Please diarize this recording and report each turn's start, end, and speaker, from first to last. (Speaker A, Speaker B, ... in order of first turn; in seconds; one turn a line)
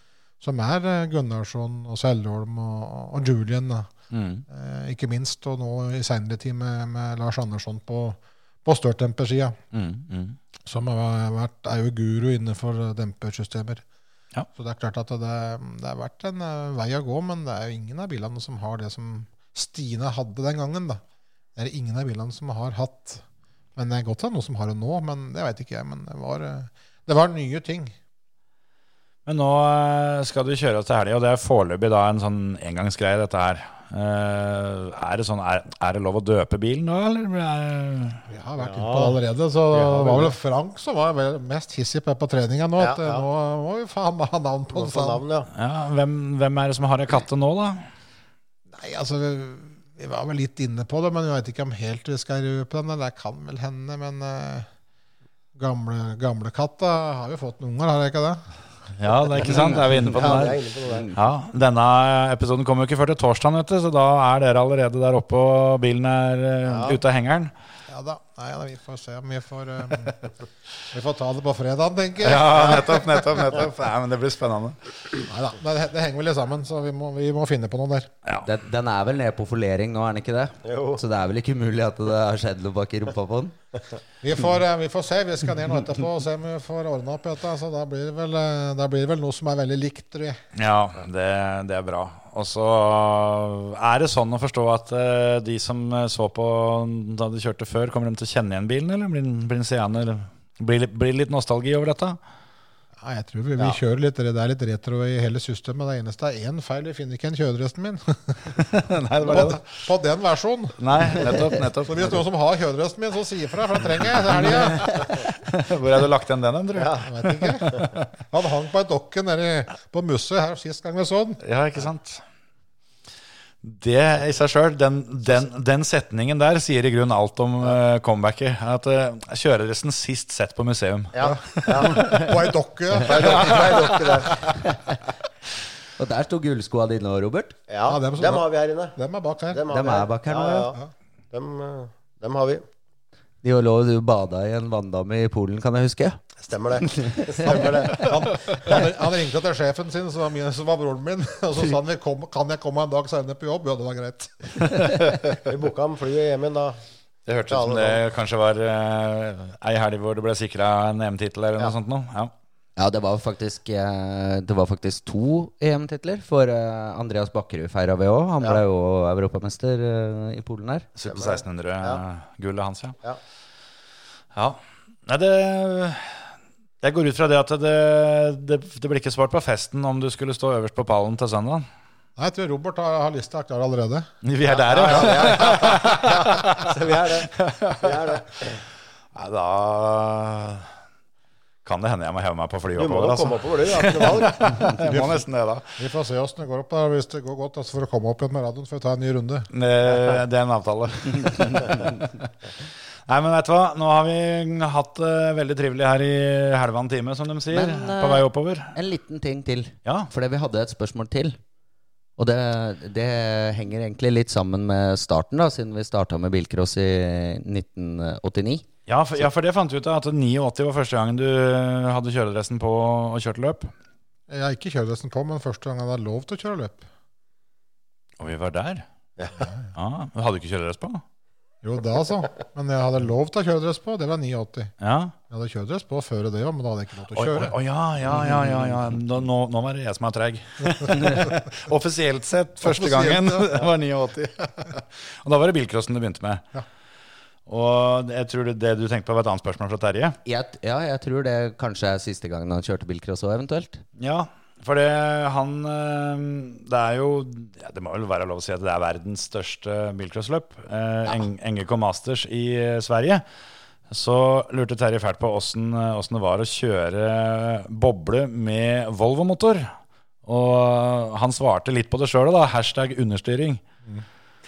Speaker A: 0.4-3.9
Speaker B: 4.1-4.4
Speaker A: 4.5-9.6
Speaker B: 9.7-10.3
Speaker A: 10.7-13.8
Speaker A: 14.5-21.0
Speaker A: 21.6-23.2
Speaker A: 23.7-27.9
Speaker B: 29.2-38.2
Speaker A: 38.3-45.2
Speaker C: 38.6-39.2
Speaker C: 39.7-40.4
Speaker C: 42.8-43.2
Speaker C: 44.7-45.5
Speaker B: 45.5-47.9
Speaker A: 48.7-54.7
Speaker A: 55.5-58.5
Speaker B: 59.0-60.6
Speaker D: 59.4-60.1
Speaker C: 60.0-61.1
Speaker B: 61.1-67.5
Speaker C: 66.7-67.0
Speaker A: 67.9-70.3
Speaker A: 70.9-73.4
Speaker B: 72.2-74.8
Speaker A: 75.3-78.1
Speaker D: 78.4-83.5
Speaker C: 80.6-81.0
Speaker A: 84.2-90.4
Speaker B: 90.5-102.2
Speaker A: 103.0-108.7
Speaker B: 108.6-109.7
Speaker A: 109.2-115.3
Speaker B: 110.8-112.2
Speaker B: 114.1-117.9
Speaker C: 116.8-117.0
Speaker A: 117.0-121.4
Speaker B: 121.4-122.2
Speaker B: 123.6-132.3
Speaker C: 131.1-132.2
Speaker A: 131.2-134.3
Speaker C: 133.0-134.5
Speaker D: 134.5-134.9
Speaker D: 136.0-137.6
Speaker C: 137.7-139.0
Speaker A: 137.9-139.6
Speaker C: 139.5-140.8
Speaker D: 139.7-140.7
Speaker C: 141.3-142.6
Speaker D: 143.4-146.2
Speaker C: 146.4-148.1
Speaker D: 146.9-147.6
Speaker A: 147.4-154.6
Speaker C: 155.4-156.8
Speaker B: 157.3-162.3
Speaker C: 157.5-158.0
Speaker D: 162.8-170.9
Speaker B: 171.0-172.9
Speaker C: 171.1-172.0
Speaker B: 174.3-181.7
Speaker A: 182.2-184.1
Speaker B: 184.2-188.0
Speaker C: 184.5-188.6
Speaker A: 184.9-185.5
Speaker B: 189.1-190.7
Speaker B: 191.6-195.7
Speaker C: 192.8-194.7
Speaker A: 194.8-195.2
Speaker A: 195.7-199.5
Speaker B: 199.5-208.7
Speaker D: 207.5-211.4
Speaker D: 212.2-218.6
Speaker B: 218.9-223.7
Speaker A: 224.3-226.9
Speaker B: 228.2-228.8
Speaker A: 229.4-229.7
Speaker B: 229.7-231.0
Speaker A: 231.6-234.7
Speaker B: 234.8-235.1
Speaker A: 235.3-237.5
Speaker B: 237.1-246.4
Speaker A: 242.6-243.7
Speaker B: 247.5-250.2
Speaker D: 250.2-253.8
Speaker B: 254.0-263.2
Speaker B: 263.9-269.7
Speaker B: 270.2-273.6